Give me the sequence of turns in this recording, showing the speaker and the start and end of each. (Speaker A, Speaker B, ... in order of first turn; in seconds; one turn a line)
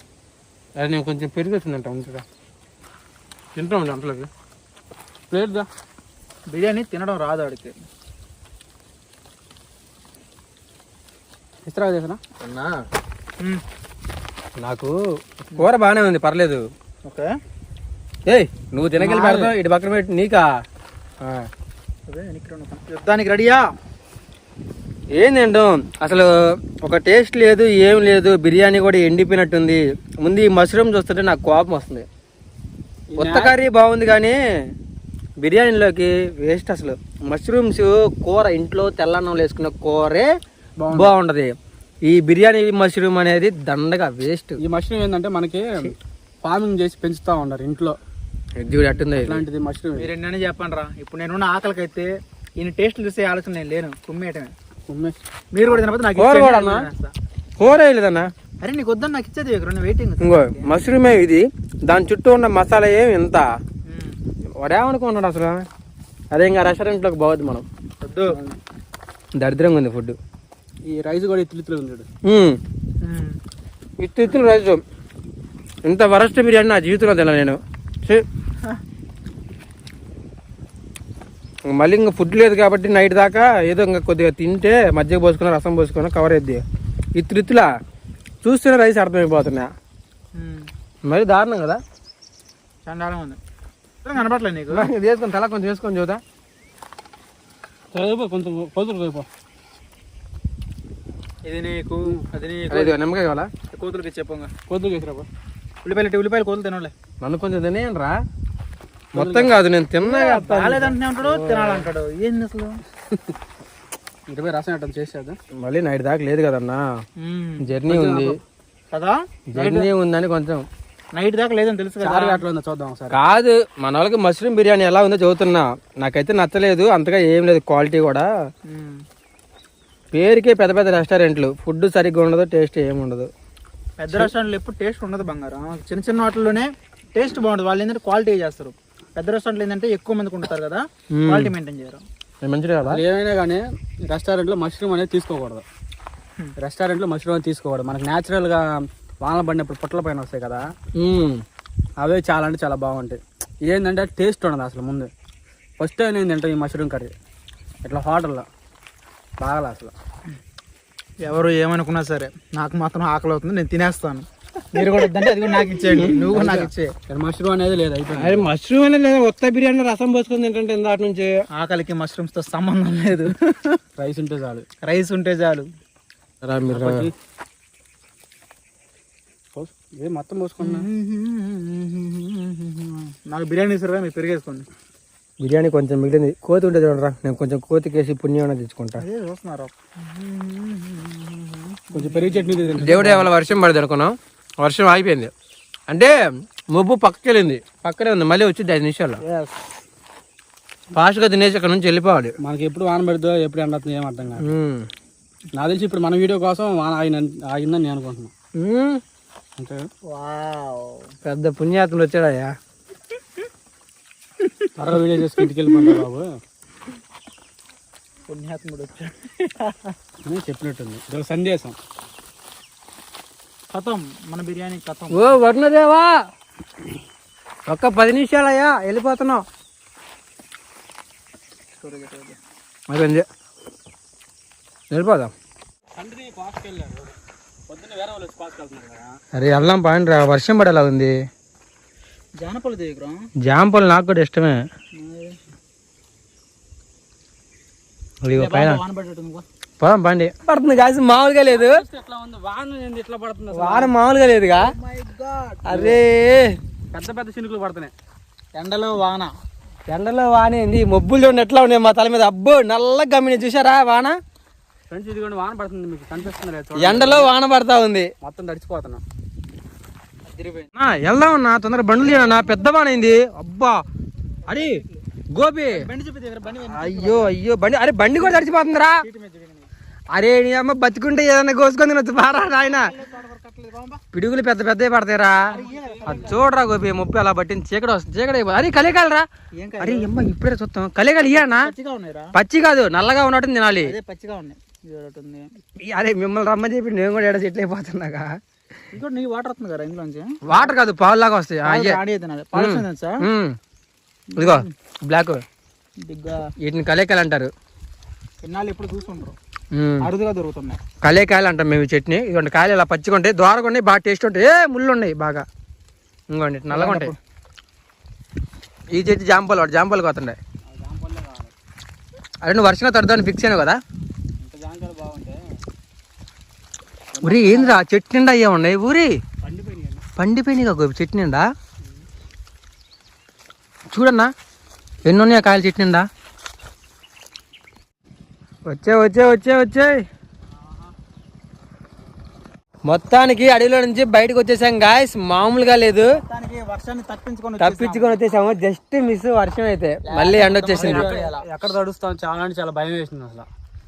Speaker A: 0.8-2.2
Speaker A: 3.5-4.3
Speaker B: 5.3-5.7
Speaker C: 6.5-7.7
Speaker B: 11.6-12.2
Speaker A: 12.4-12.8
Speaker A: 14.6-14.9
Speaker A: 15.5-16.6
Speaker A: 18.3-20.5
Speaker C: 19.0-19.5
Speaker C: 22.1-23.6
Speaker A: 25.1-26.3
Speaker A: 26.8-32.1
Speaker B: 33.1-33.5
Speaker A: 33.2-34.4
Speaker A: 35.4-40.3
Speaker B: 40.8-41.1
Speaker A: 40.9-41.5
Speaker A: 42.0-44.6
Speaker B: 44.6-48.0
Speaker A: 48.6-49.4
Speaker B: 49.1-50.1
Speaker C: 49.9-54.5
Speaker B: 54.9-55.2
Speaker C: 55.5-57.1
Speaker A: 56.2-56.9
Speaker A: 57.6-58.3
Speaker C: 58.6-60.7
Speaker A: 60.2-63.5
Speaker C: 63.9-64.2
Speaker A: 64.6-65.6
Speaker A: 66.3-67.7
Speaker C: 68.0-68.3
Speaker B: 68.3-68.6
Speaker A: 69.3-70.2
Speaker B: 70.8-72.1
Speaker A: 72.2-72.6
Speaker C: 73.0-73.4
Speaker A: 74.0-74.8
Speaker A: 75.8-78.2
Speaker A: 81.7-86.6
Speaker A: 87.2-87.7
Speaker A: 88.4-89.7
Speaker C: 90.3-90.7
Speaker A: 91.0-91.8
Speaker C: 92.8-93.4
Speaker C: 94.0-94.9
Speaker A: 94.7-96.2
Speaker B: 97.9-99.3
Speaker C: 101.5-103.0
Speaker A: 102.7-103.5
Speaker C: 103.7-104.5
Speaker B: 104.7-105.3
Speaker C: 105.8-106.9
Speaker A: 107.2-108.2
Speaker B: 109.1-109.6
Speaker A: 109.1-111.8
Speaker C: 110.0-112.8
Speaker B: 114.3-115.4
Speaker A: 115.6-116.8
Speaker C: 117.2-117.7
Speaker A: 117.6-118.3
Speaker B: 117.9-118.4
Speaker C: 118.9-119.9
Speaker A: 119.5-120.6
Speaker C: 121.2-122.4
Speaker B: 122.0-123.2
Speaker A: 123.1-128.3
Speaker C: 128.7-129.0
Speaker A: 130.1-133.3
Speaker C: 134.0-142.0
Speaker A: 141.2-141.5
Speaker A: 142.4-143.0
Speaker B: 142.8-145.6
Speaker B: 146.6-148.6
Speaker B: 149.2-150.7
Speaker A: 150.9-151.4
Speaker B: 152.0-155.1
Speaker B: 155.8-157.1
Speaker B: 157.8-158.4
Speaker B: 159.4-159.9
Speaker C: 161.2-166.9
Speaker A: 165.9-166.7
Speaker B: 167.1-168.5
Speaker A: 168.1-171.3
Speaker C: 171.5-173.8
Speaker B: 174.0-174.7
Speaker C: 174.8-175.7
Speaker A: 176.4-177.1
Speaker B: 176.7-177.1
Speaker B: 179.5-180.9
Speaker C: 180.6-184.7
Speaker A: 185.4-189.0
Speaker C: 189.0-192.9
Speaker B: 191.9-193.3
Speaker A: 192.8-195.3
Speaker A: 195.9-196.1
Speaker A: 196.7-199.2
Speaker A: 200.9-202.3
Speaker B: 202.4-204.5
Speaker A: 204.4-204.9
Speaker B: 205.6-208.3
Speaker A: 208.6-209.0
Speaker B: 209.6-209.8
Speaker C: 210.1-211.1
Speaker A: 211.2-212.5
Speaker B: 214.8-216.2
Speaker C: 218.3-219.9
Speaker B: 220.2-221.8
Speaker C: 223.7-225.3
Speaker A: 225.1-226.1
Speaker A: 227.7-229.4
Speaker C: 231.8-232.4
Speaker A: 232.9-233.2
Speaker A: 234.9-235.3
Speaker B: 236.0-237.2
Speaker B: 237.7-239.1
Speaker A: 239.3-241.1
Speaker C: 242.4-243.2
Speaker A: 243.4-244.6
Speaker C: 244.9-245.4
Speaker A: 248.2-248.8
Speaker C: 248.3-249.4
Speaker A: 249.8-251.8
Speaker B: 251.5-253.9
Speaker A: 253.5-254.7
Speaker C: 254.5-255.9
Speaker A: 255.7-256.5
Speaker B: 256.9-257.9
Speaker C: 258.5-259.3
Speaker A: 259.9-264.1
Speaker B: 264.9-267.3
Speaker A: 266.8-268.1
Speaker B: 268.2-269.0
Speaker C: 270.3-270.7
Speaker A: 270.8-273.8
Speaker C: 272.2-272.5
Speaker A: 274.5-274.8
Speaker C: 274.5-275.0
Speaker A: 275.3-275.8
Speaker C: 275.7-277.3
Speaker A: 276.7-279.0
Speaker C: 279.0-279.7
Speaker A: 280.1-282.9
Speaker C: 282.5-284.0
Speaker A: 284.1-289.2
Speaker B: 285.4-286.4
Speaker C: 285.4-286.4
Speaker C: 289.6-290.1
Speaker A: 289.8-291.7
Speaker C: 291.4-292.3
Speaker A: 292.3-293.9
Speaker C: 293.8-295.5
Speaker A: 295.8-298.3
Speaker C: 298.9-300.7
Speaker A: 300.4-302.0
Speaker C: 301.6-303.2
Speaker A: 302.5-303.6
Speaker C: 304.3-304.7
Speaker A: 304.4-305.4
Speaker C: 306.1-306.4
Speaker A: 306.6-307.5
Speaker C: 308.4-309.4
Speaker A: 309.7-310.1
Speaker C: 310.0-310.8
Speaker A: 311.0-315.4
Speaker A: 316.3-317.1
Speaker C: 316.7-317.2
Speaker A: 318.9-320.4
Speaker B: 320.6-321.5
Speaker A: 322.4-323.8
Speaker B: 324.4-325.4
Speaker B: 327.1-327.8
Speaker A: 327.2-329.1
Speaker B: 329.4-330.0
Speaker A: 330.2-331.5
Speaker A: 333.9-334.3
Speaker A: 335.0-336.1
Speaker A: 338.6-340.0
Speaker A: 342.9-346.1
Speaker C: 346.1-348.2
Speaker A: 347.6-351.1
Speaker C: 350.0-351.6
Speaker B: 350.8-353.5